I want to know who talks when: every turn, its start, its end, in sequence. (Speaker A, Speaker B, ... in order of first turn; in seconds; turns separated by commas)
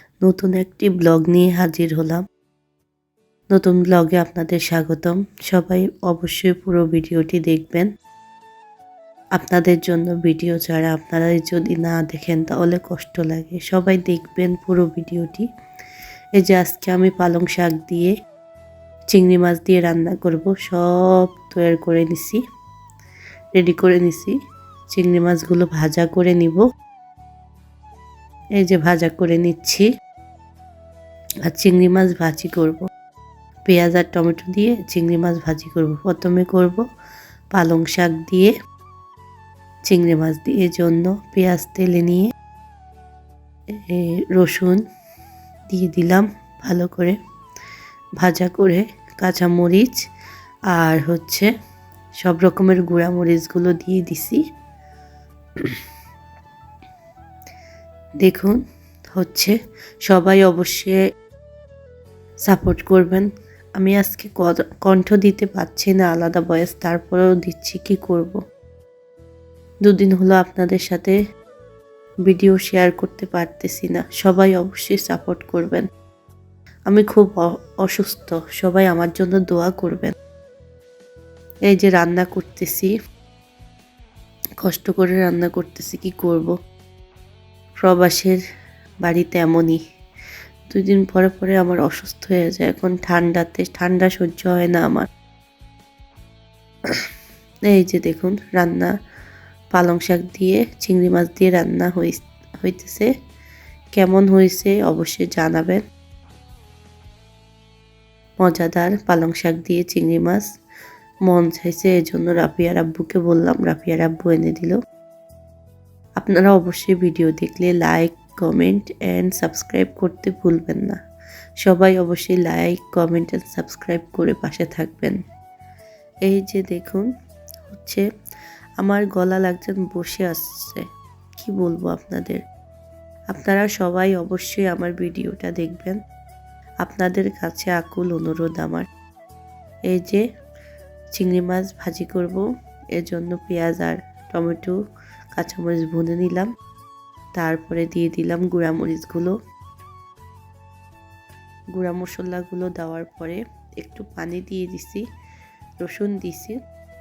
Speaker A: 0.2-2.2, Speaker A: 3.5-7.9, Speaker A: 9.4-15.5, Speaker A: 16.4-18.1, Speaker A: 19.1-22.4, Speaker A: 23.6-24.4, Speaker A: 24.9-26.6, Speaker A: 28.6-29.9, Speaker A: 31.5-32.9, Speaker A: 33.7-36.8, Speaker A: 37.5-38.5, Speaker A: 39.9-42.3, Speaker A: 43.8-44.8, Speaker A: 45.7-47.2, Speaker A: 48.2-50.0, Speaker A: 50.7-51.5, Speaker A: 52.2-54.4, Speaker A: 58.2-58.6, Speaker A: 59.1-59.6, Speaker A: 60.1-61.0, Speaker A: 62.5-63.3, Speaker A: 63.8-68.4, Speaker A: 69.9-71.2, Speaker A: 72.3-75.9, Speaker A: 76.9-80.1, Speaker A: 81.7-82.9, Speaker A: 84.6-86.5, Speaker A: 87.8-88.4, Speaker A: 89.0-89.8, Speaker A: 90.7-95.1, Speaker A: 97.7-98.9, Speaker A: 99.7-103.1, Speaker A: 104.0-105.8, Speaker A: 108.4-110.5, Speaker A: 111.3-114.8, Speaker A: 116.2-121.0, Speaker A: 121.6-125.2, Speaker A: 126.2-127.1, Speaker A: 127.7-128.0, Speaker A: 128.8-130.9, Speaker A: 131.4-132.4, Speaker A: 133.3-136.0, Speaker A: 136.8-138.8, Speaker A: 139.9-140.2, Speaker A: 141.2-142.4, Speaker A: 143.0-144.8, Speaker A: 145.4-146.5, Speaker A: 147.4-149.3, Speaker A: 151.8-155.0, Speaker A: 155.8-156.6